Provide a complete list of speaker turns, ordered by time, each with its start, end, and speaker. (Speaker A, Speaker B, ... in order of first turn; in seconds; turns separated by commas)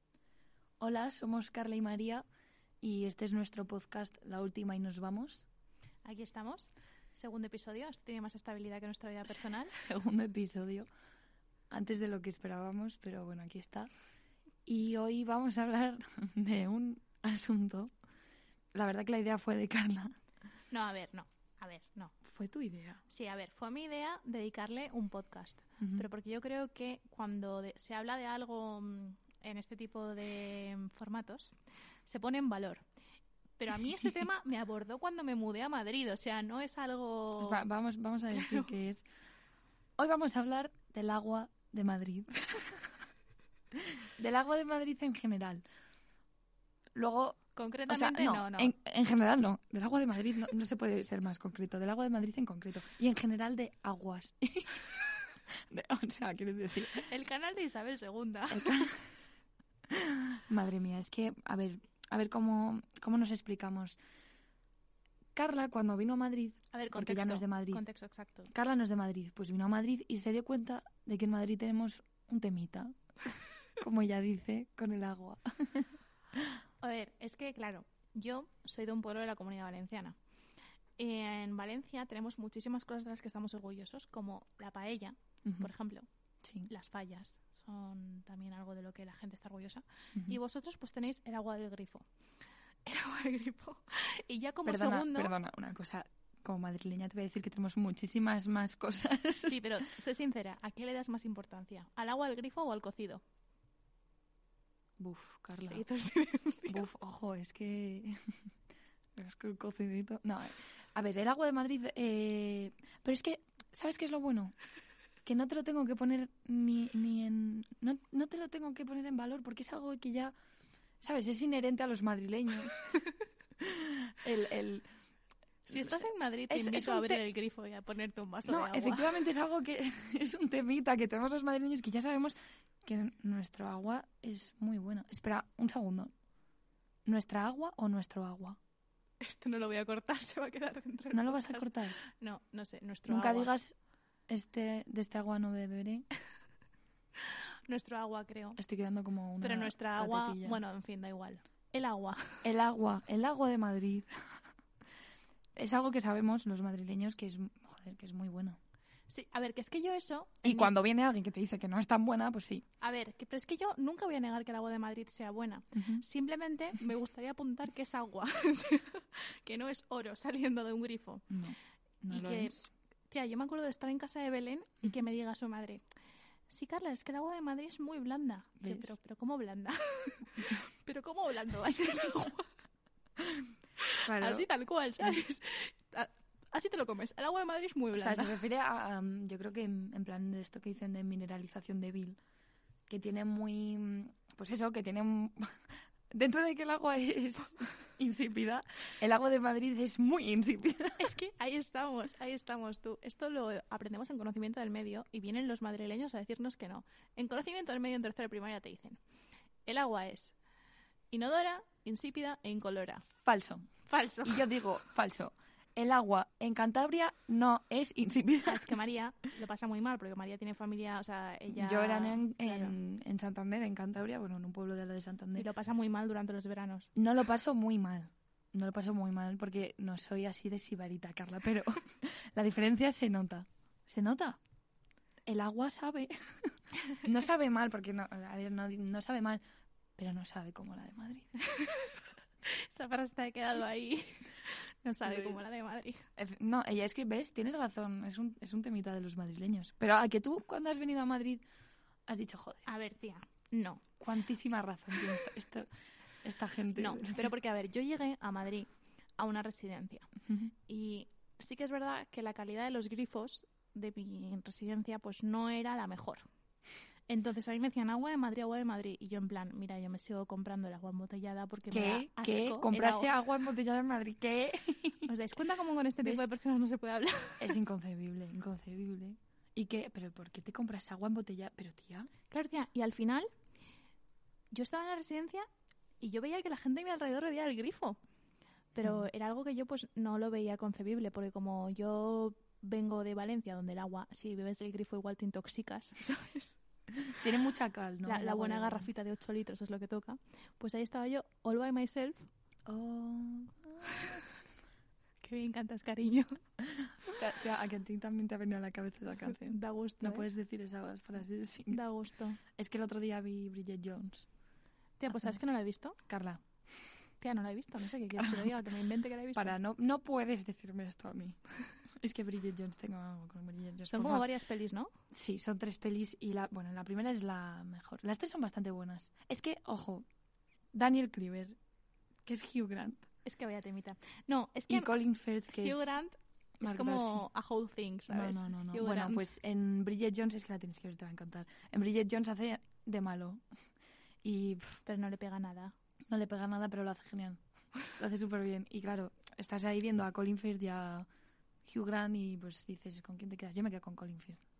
Speaker A: 0.8-2.2, Speaker A: 2.8-5.4, Speaker B: 6.0-9.8, Speaker A: 9.7-10.9, Speaker A: 11.7-13.9, Speaker A: 14.7-17.9, Speaker A: 18.7-20.1, Speaker B: 20.7-22.1, Speaker A: 22.2-23.0, Speaker B: 23.1-31.5, Speaker A: 25.8-26.1, Speaker B: 32.0-32.8, Speaker B: 33.6-37.7, Speaker A: 37.4-39.0, Speaker B: 38.3-38.7, Speaker A: 40.0-42.4, Speaker A: 44.2-45.6, Speaker A: 46.9-54.8, Speaker B: 47.5-48.7, Speaker A: 55.7-57.1, Speaker B: 57.1-58.9, Speaker A: 58.5-59.0, Speaker A: 59.9-64.0, Speaker A: 65.3-67.8, Speaker B: 66.7-68.5, Speaker A: 68.5-72.9, Speaker A: 73.8-75.9, Speaker B: 76.8-80.2, Speaker B: 81.0-86.0, Speaker A: 85.4-85.7, Speaker A: 86.4-86.7, Speaker B: 86.7-92.1, Speaker B: 92.8-95.3, Speaker A: 94.6-99.7, Speaker B: 99.4-103.2, Speaker A: 105.0-105.8, Speaker B: 105.5-106.9, Speaker A: 106.7-108.3, Speaker A: 109.2-114.5, Speaker A: 115.2-120.3, Speaker A: 121.0-122.8, Speaker A: 123.6-124.8, Speaker B: 125.7-129.2, Speaker A: 125.7-127.2, Speaker A: 128.5-136.1, Speaker A: 137.1-138.6, Speaker B: 139.2-143.6, Speaker A: 141.1-142.0, Speaker A: 143.1-143.7, Speaker A: 144.3-146.1, Speaker B: 147.7-148.6, Speaker A: 148.6-150.6, Speaker B: 149.4-152.4, Speaker A: 152.4-154.1, Speaker A: 155.6-158.6, Speaker B: 159.1-160.8, Speaker A: 160.4-162.6, Speaker B: 162.8-171.3, Speaker A: 171.3-172.7, Speaker B: 172.1-175.8, Speaker B: 176.5-182.5, Speaker A: 178.6-178.9, Speaker B: 183.8-188.4, Speaker A: 184.0-184.5, Speaker A: 187.9-192.2, Speaker A: 192.9-201.1, Speaker B: 201.0-209.0, Speaker B: 209.6-210.3, Speaker B: 211.1-213.0, Speaker A: 213.2-213.7, Speaker B: 213.9-214.5, Speaker A: 214.2-218.7, Speaker B: 218.4-222.8, Speaker A: 221.5-225.5, Speaker B: 225.3-226.9, Speaker A: 226.9-234.4, Speaker A: 235.3-239.4, Speaker A: 240.0-241.3, Speaker B: 241.4-246.1, Speaker A: 245.0-245.4, Speaker A: 246.2-251.4, Speaker A: 252.1-252.7, Speaker B: 252.7-253.8, Speaker A: 254.0-255.7, Speaker A: 256.2-257.3, Speaker B: 256.7-260.1, Speaker B: 260.7-266.2, Speaker B: 267.1-273.1, Speaker A: 271.7-275.3, Speaker B: 275.1-277.6, Speaker A: 276.0-276.3, Speaker A: 277.4-282.1, Speaker B: 282.3-283.3, Speaker B: 284.5-285.4, Speaker B: 286.0-288.0, Speaker B: 288.7-296.6, Speaker A: 297.2-298.9, Speaker B: 298.0-302.3, Speaker A: 302.7-304.2, Speaker B: 305.2-306.4, Speaker A: 307.1-311.8, Speaker B: 309.1-310.3, Speaker B: 311.7-312.4, Speaker A: 312.5-314.3, Speaker B: 315.0-316.0, Speaker A: 315.1-315.4, Speaker A: 316.1-316.4, Speaker B: 317.2-319.6, Speaker A: 318.2-318.5, Speaker A: 319.3-324.3, Speaker B: 323.9-324.9, Speaker A: 325.1-330.0, Speaker A: 330.7-331.6, Speaker A: 332.2-333.1, Speaker B: 333.2-334.9, Speaker A: 334.7-335.9, Speaker B: 335.5-339.2, Speaker A: 336.6-337.2, Speaker A: 338.1-343.4, Speaker A: 344.2-344.8, Speaker B: 344.8-345.7, Speaker A: 346.1-351.1, Speaker A: 351.6-354.4